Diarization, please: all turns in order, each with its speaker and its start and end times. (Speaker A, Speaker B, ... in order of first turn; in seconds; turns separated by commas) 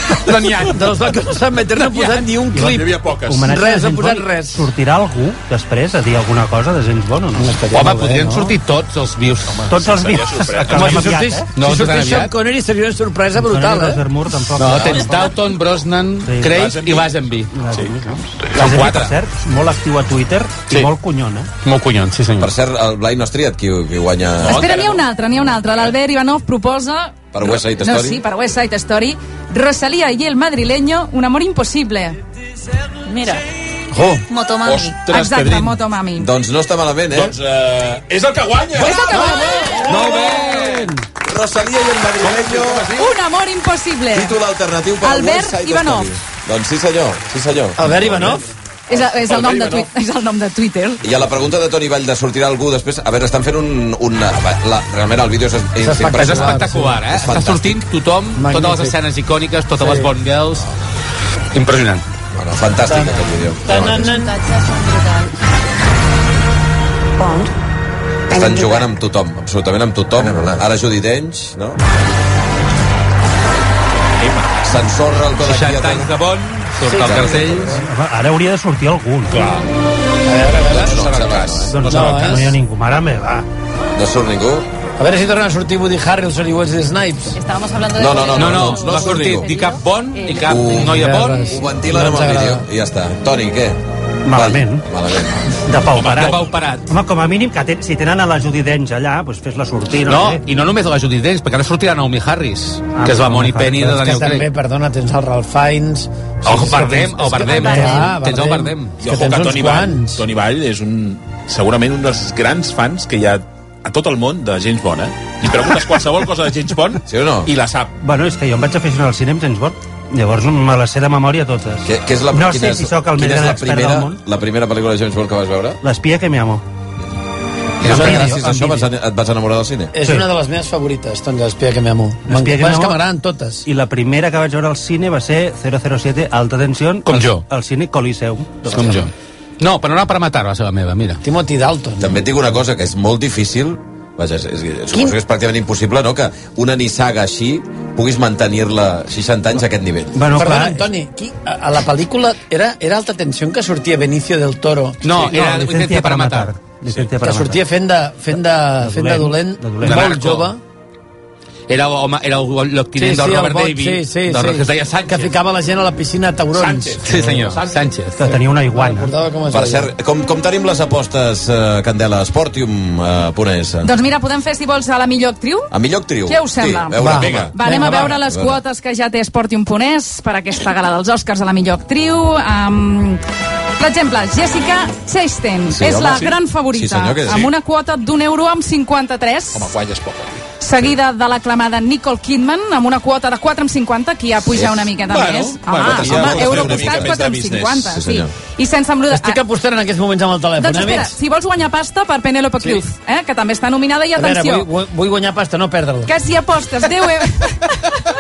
Speaker A: 0.2-1.0, Speaker B: 0.6-4.6, Speaker C: 2.5-7.6, Speaker D: 2.6-3.5, Speaker B: 7.4-8.6, Speaker A: 7.7-9.6, Speaker D: 9.5-11.2, Speaker C: 9.7-11.5, Speaker B: 10.7-14.0, Speaker A: 11.6-12.3, Speaker C: 13.3-15.4, Speaker A: 14.6-17.5, Speaker D: 14.7-15.7, Speaker C: 16.2-16.7, Speaker D: 16.5-19.1, Speaker C: 17.5-21.5, Speaker A: 18.8-19.1, Speaker A: 21.6-22.5, Speaker E: 22.4-24.8, Speaker D: 24.4-25.0, Speaker F: 24.4-32.2, Speaker E: 27.3-28.2, Speaker G: 33.0-33.5, Speaker B: 33.9-34.2, Speaker G: 34.3-35.0, Speaker D: 34.6-35.8, Speaker F: 35.1-36.3, Speaker E: 36.2-37.4, Speaker D: 37.1-40.9, Speaker F: 38.8-40.1, Speaker B: 39.9-40.9, Speaker E: 41.2-43.0, Speaker D: 42.2-43.0, Speaker F: 43.0-44.4, Speaker E: 44.1-48.4, Speaker F: 45.0-46.1, Speaker B: 47.8-48.4, Speaker F: 48.9-51.0, Speaker D: 49.1-49.9, Speaker E: 51.0-57.8, Speaker B: 55.8-57.0, Speaker A: 56.1-60.7, Speaker B: 58.4-59.0, Speaker B: 59.8-60.1, Speaker A: 61.5-62.0, Speaker E: 62.3-64.1, Speaker B: 62.9-64.4, Speaker G: 63.8-65.3, Speaker G: 67.2-67.5, Speaker E: 68.3-71.8, Speaker G: 68.4-68.8, Speaker D: 74.2-74.6, Speaker E: 74.6-76.1, Speaker A: 75.4-77.8, Speaker B: 76.8-77.8, Speaker E: 77.0-77.7, Speaker C: 77.8-79.5, Speaker D: 79.3-79.7, Speaker B: 80.3-81.0, Speaker E: 80.7-81.8, Speaker D: 80.9-81.7, Speaker C: 81.7-83.5, Speaker B: 81.8-82.6, Speaker E: 83.9-84.7, Speaker B: 85.0-87.4, Speaker F: 87.5-88.2, Speaker E: 88.0-89.5, Speaker A: 88.3-91.5, Speaker E: 90.4-93.8, Speaker B: 90.8-92.7, Speaker C: 94.3-94.9, Speaker E: 94.3-95.5, Speaker C: 95.6-100.4, Speaker D: 96.0-96.5, Speaker A: 96.1-96.8, Speaker A: 100.0-104.5, Speaker C: 102.9-104.0, Speaker B: 103.8-110.2, Speaker A: 106.5-108.9, Speaker C: 107.5-108.1, Speaker D: 109.0-117.9, Speaker E: 117.1-117.5, Speaker C: 118.0-124.2, Speaker E: 121.8-125.8, Speaker C: 125.8-126.6, Speaker C: 127.8-128.8, Speaker B: 127.8-128.7, Speaker E: 127.8-129.9, Speaker B: 129.9-133.7, Speaker C: 130.0-130.3, Speaker C: 132.3-133.0, Speaker C: 133.7-139.1, Speaker A: 137.1-137.4, Speaker A: 138.7-141.2, Speaker B: 141.2-142.2, Speaker E: 142.0-150.2, Speaker C: 150.1-150.9, Speaker B: 150.4-155.0, Speaker A: 155.0-156.5, Speaker C: 155.2-157.6, Speaker B: 157.2-160.6, Speaker C: 158.8-160.2, Speaker A: 159.8-160.5, Speaker A: 161.7-165.3, Speaker B: 163.0-167.0, Speaker D: 166.5-167.8, Speaker A: 167.1-168.3, Speaker C: 167.1-167.6, Speaker C: 168.2-169.1, Speaker B: 168.7-169.9, Speaker E: 169.5-173.9, Speaker F: 173.8-175.7, Speaker E: 175.7-178.6, Speaker F: 176.3-183.2, Speaker B: 177.0-178.1, Speaker D: 177.1-177.5, Speaker F: 183.8-189.7, Speaker E: 185.7-187.5, Speaker D: 186.0-186.3, Speaker D: 189.5-190.4, Speaker F: 190.6-199.4, Speaker E: 194.6-194.9, Speaker D: 195.0-198.0, Speaker E: 195.8-197.2, Speaker E: 197.9-198.3, Speaker B: 199.1-201.2, Speaker F: 200.6-204.7, Speaker B: 204.2-206.1, Speaker F: 206.1-208.0